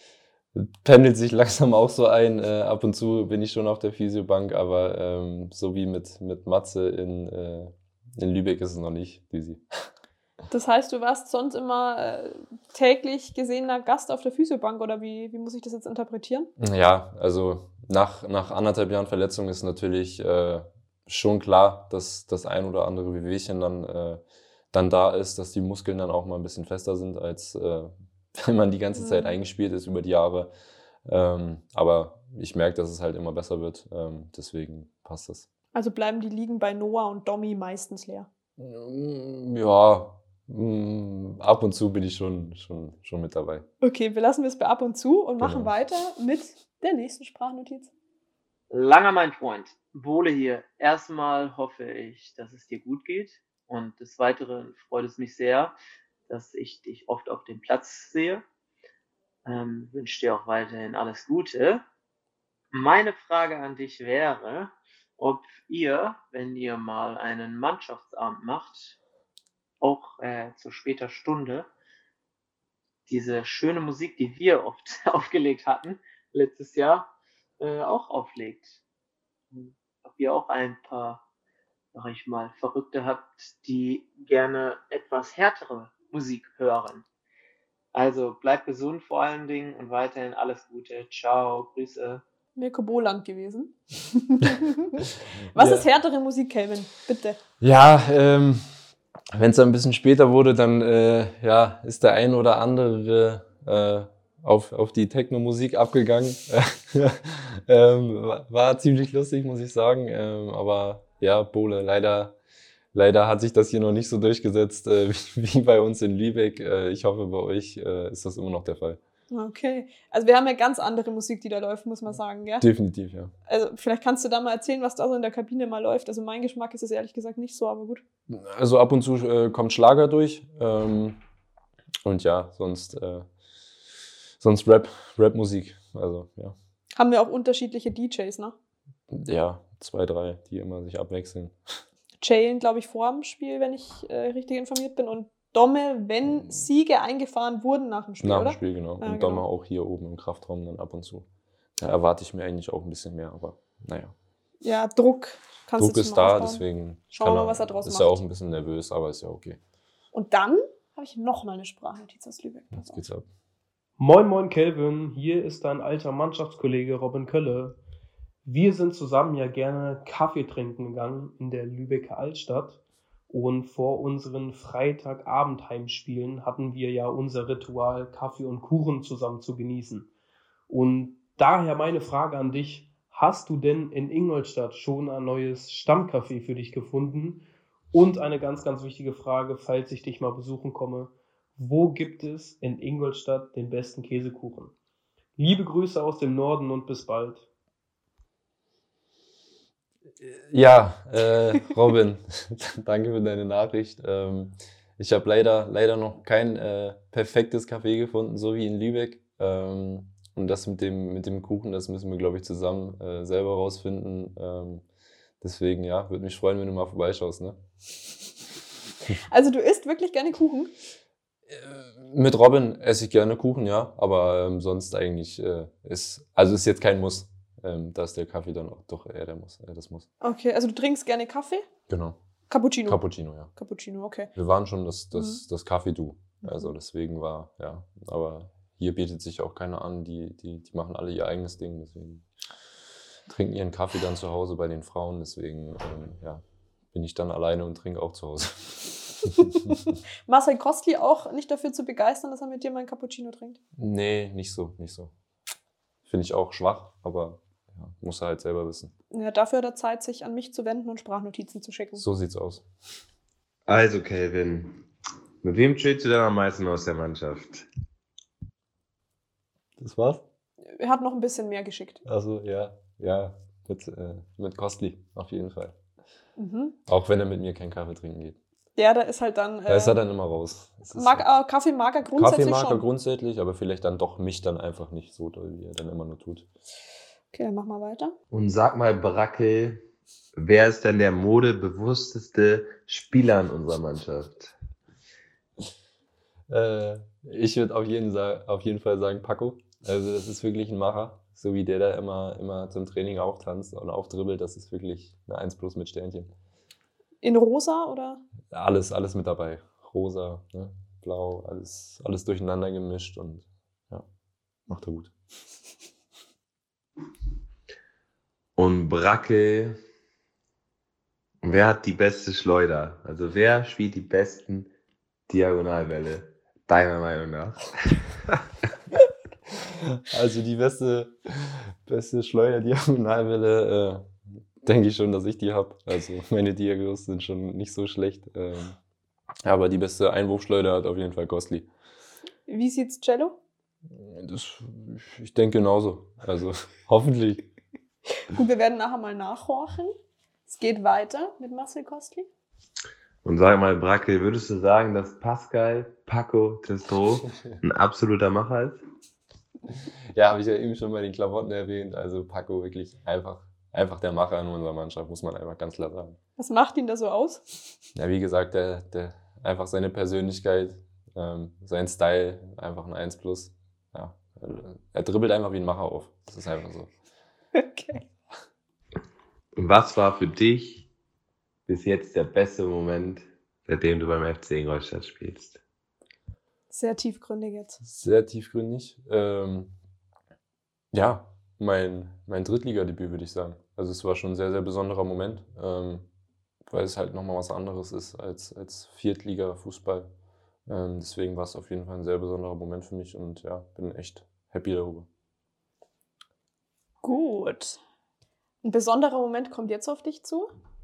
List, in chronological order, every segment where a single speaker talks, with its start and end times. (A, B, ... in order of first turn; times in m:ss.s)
0:00.5-0:09.9 A
0:10.5-0:16.5 B
0:16.6-0:30.5 A
0:29.0-0:29.4 B
0:31.0-0:35.5 A
0:35.7-0:38.3 B
0:38.6-0:43.7 A
0:43.8-0:47.9 B
0:45.4-0:45.7 A
0:48.7-0:55.7 C
0:56.3-0:58.4 C
0:59.4-1:01.8 C
1:02.7-1:09.0 C
1:09.8-1:11.7 C
1:13.1-1:17.1 C
1:17.6-1:18.8 C
1:19.5-1:21.2 C
1:21.9-1:27.0 C
1:27.9-1:32.2 C
1:32.6-1:37.4 B
1:35.5-1:35.9 A
1:37.6-1:38.8 A
1:39.3-1:52.3 A
1:52.9-1:59.0 A
1:59.3-2:02.7 B
2:02.6-2:03.3 A
2:03.5-2:08.0 B
2:08.3-2:11.2 A
2:12.0-2:13.3 A
2:14.4-2:16.6 A
2:17.0-2:18.6 B
2:19.1-2:21.8 A
2:22.2-2:29.4 B
2:28.2-2:34.1 A
2:34.6-2:38.2 B
2:35.8-2:39.6 A
2:40.1-2:43.0 B
2:42.7-2:43.3 A
2:44.0-2:47.8 D
2:48.4-3:00.1 D
3:00.7-3:14.7 D
3:15.4-3:17.5 D
3:20.2-3:34.8 A
3:35.4-3:37.6 A
3:39.3-3:40.7 B
3:41.5-3:50.1 A
3:50.2-3:51.7 B
3:51.9-3:52.2 A
3:52.5-3:53.0 B
3:52.9-3:53.5 A
3:53.6-3:54.3 B
3:54.4-4:02.3 A
3:55.1-3:55.4 B
3:56.4-3:56.7 B
4:03.3-4:09.8 A
4:10.3-4:13.6 B
4:13.8-4:15.1 A
4:16.1-4:18.9 A
4:19.1-4:22.0 B
4:22.0-4:22.7 A
4:23.7-4:24.8 E
4:25.4-4:27.6 E
4:29.8-4:30.2 A
4:30.7-4:32.0 B
4:32.0-4:35.8 A
4:36.4-4:36.8 B
4:36.9-4:38.4 A
4:38.8-4:40.0 B
4:39.7-4:41.3 A
4:40.9-4:42.8 B
4:42.1-4:46.5 A
4:47.3-4:48.1 B
4:48.3-4:49.8 E
4:50.4-4:54.5 E
4:56.5-5:06.3 A
5:07.2-5:08.2 B
5:08.5-5:14.1 A
5:14.7-5:15.1 A
5:18.6-5:19.8 E
5:21.4-5:24.7 E
5:25.3-5:28.0 E
5:29.8-5:38.8 A
5:39.4-5:41.7 A
5:42.5-5:43.4 B
5:43.9-5:47.5 A
5:48.2-5:49.9 B
5:50.4-5:52.3 B
5:53.2-5:58.8 E
6:00.1-6:06.2 A
6:06.4-6:07.4 B
6:08.0-6:16.9 A
6:17.6-6:18.0 B
6:19.6-6:20.9 E
6:21.7-6:25.6 E
6:26.7-6:27.8 B
6:27.8-6:29.7 A
6:30.9-6:36.1 A
6:36.7-6:40.1 A
6:40.7-6:45.1 A
6:47.0-6:47.8 B
6:48.6-6:50.5 B